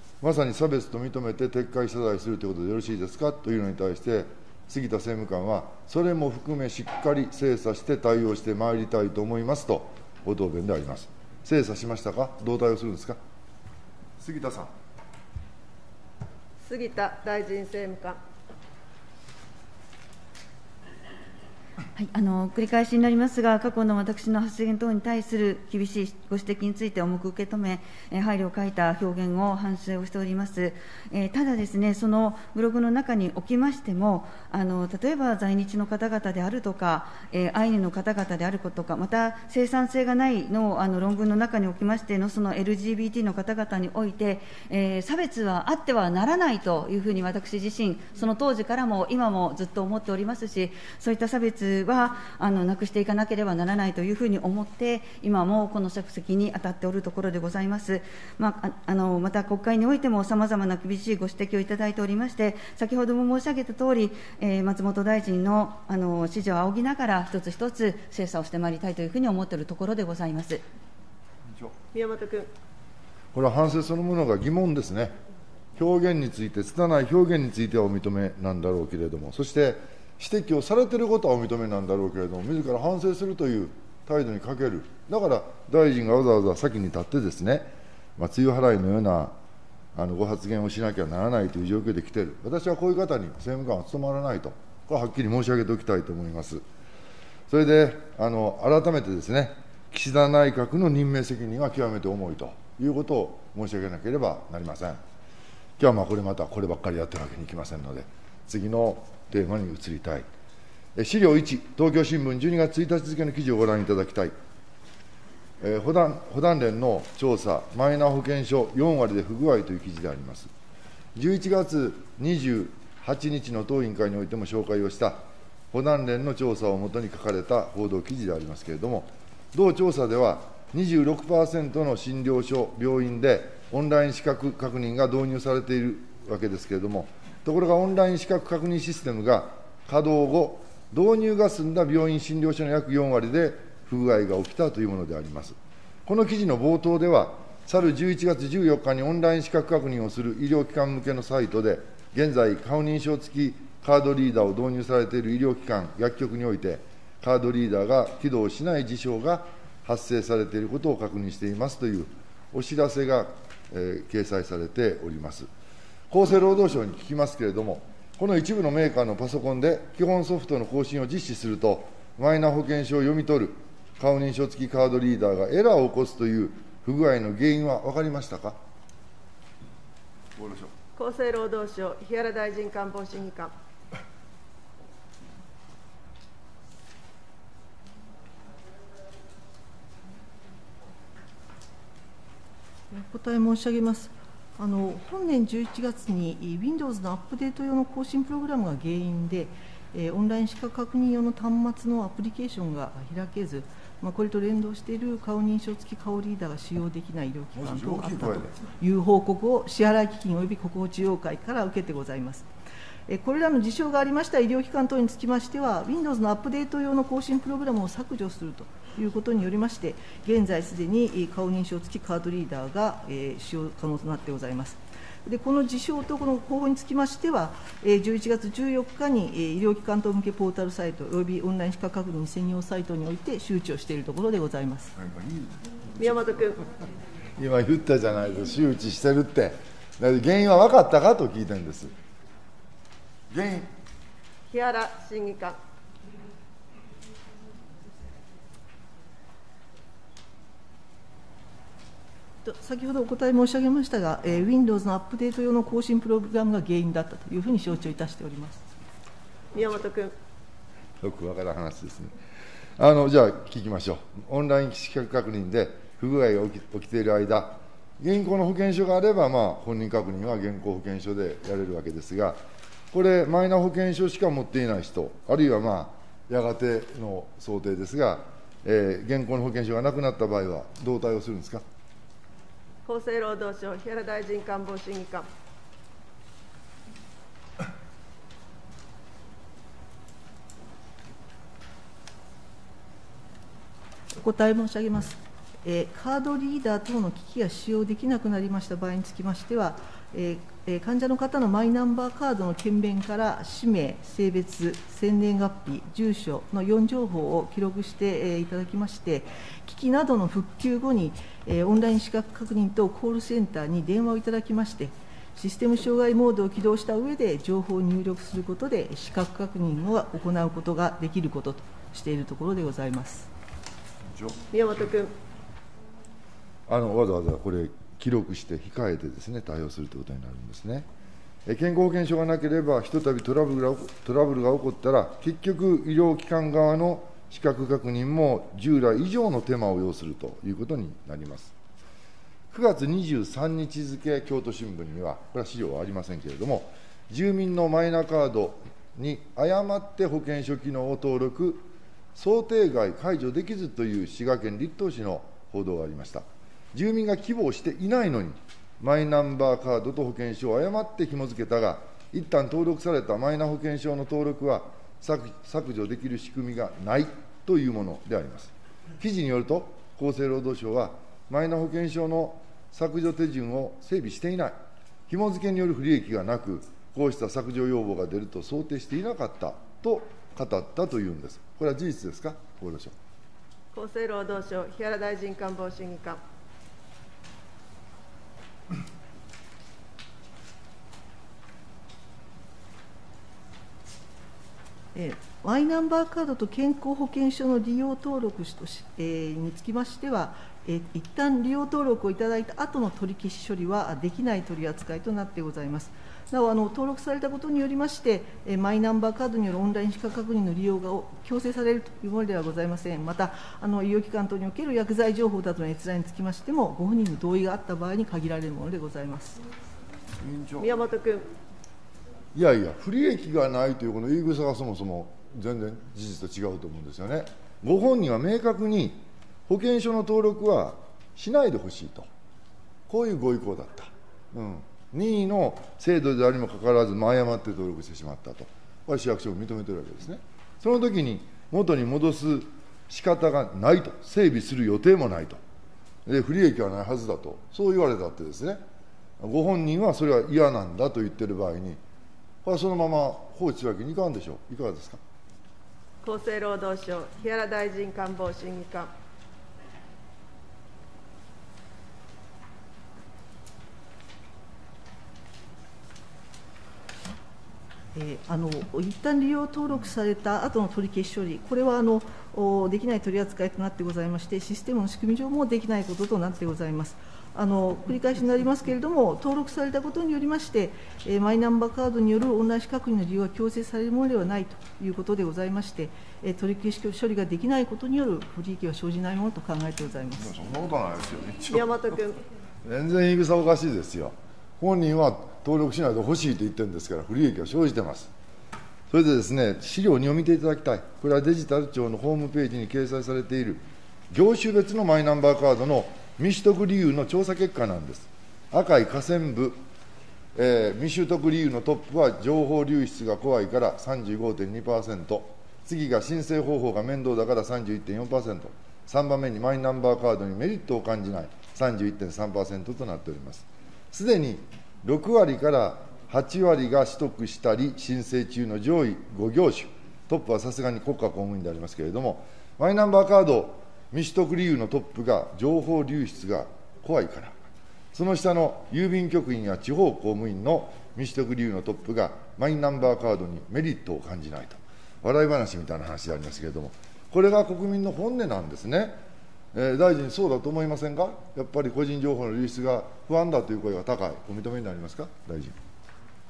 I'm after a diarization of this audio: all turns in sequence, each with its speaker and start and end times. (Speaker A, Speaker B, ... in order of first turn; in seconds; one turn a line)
Speaker A: 0.2-13.2
Speaker A: 14.2-14.7
Speaker B: 16.6-18.2
Speaker C: 21.9-70.6
Speaker B: 71.9-72.5
Speaker A: 73.3-75.1
Speaker A: 75.8-89.3
Speaker A: 89.9-96.6
Speaker A: 97.5-105.0
Speaker A: 105.8-110.2
Speaker A: 110.9-114.3
Speaker A: 115.6-120.5
Speaker A: 121.2-125.2
Speaker A: 125.7-165.5
Speaker A: 166.1-178.6
Speaker A: 180.4-180.7
Speaker B: 180.9-183.5
Speaker D: 192.9-212.5
Speaker A: 207.5-208.6
Speaker D: 213.1-234.9
Speaker A: 235.0-236.1
Speaker B: 236.0-236.6
Speaker A: 237.4-241.9
Speaker A: 243.3-243.7
Speaker B: 244.5-245.6
Speaker D: 252.4-258.6
Speaker B: 259.5-260.1
Speaker A: 261.0-262.1
Speaker A: 262.8-272.4
Speaker A: 272.9-281.6
Speaker B: 282.8-285.3
Speaker D: 294.2-323.3
Speaker B: 324.5-325.1
Speaker A: 326.7-330.9
Speaker A: 331.4-341.5
Speaker A: 342.5-374.5
Speaker A: 375.1-382.9
Speaker B: 383.7-386.2
Speaker D: 394.9-419.4
Speaker A: 420.2-420.7
Speaker B: 420.6-421.3
Speaker A: 422.3-432.1
Speaker A: 432.9-445.4
Speaker A: 446.1-448.6
Speaker A: 449.2-451.8
Speaker A: 452.4-455.0
Speaker B: 456.0-458.9
Speaker D: 467.9-490.3
Speaker A: 490.2-491.7
Speaker B: 491.5-492.2
Speaker A: 492.6-498.1
Speaker A: 498.9-509.6
Speaker A: 510.4-537.4
Speaker A: 537.9-549.0
Speaker A: 549.5-555.5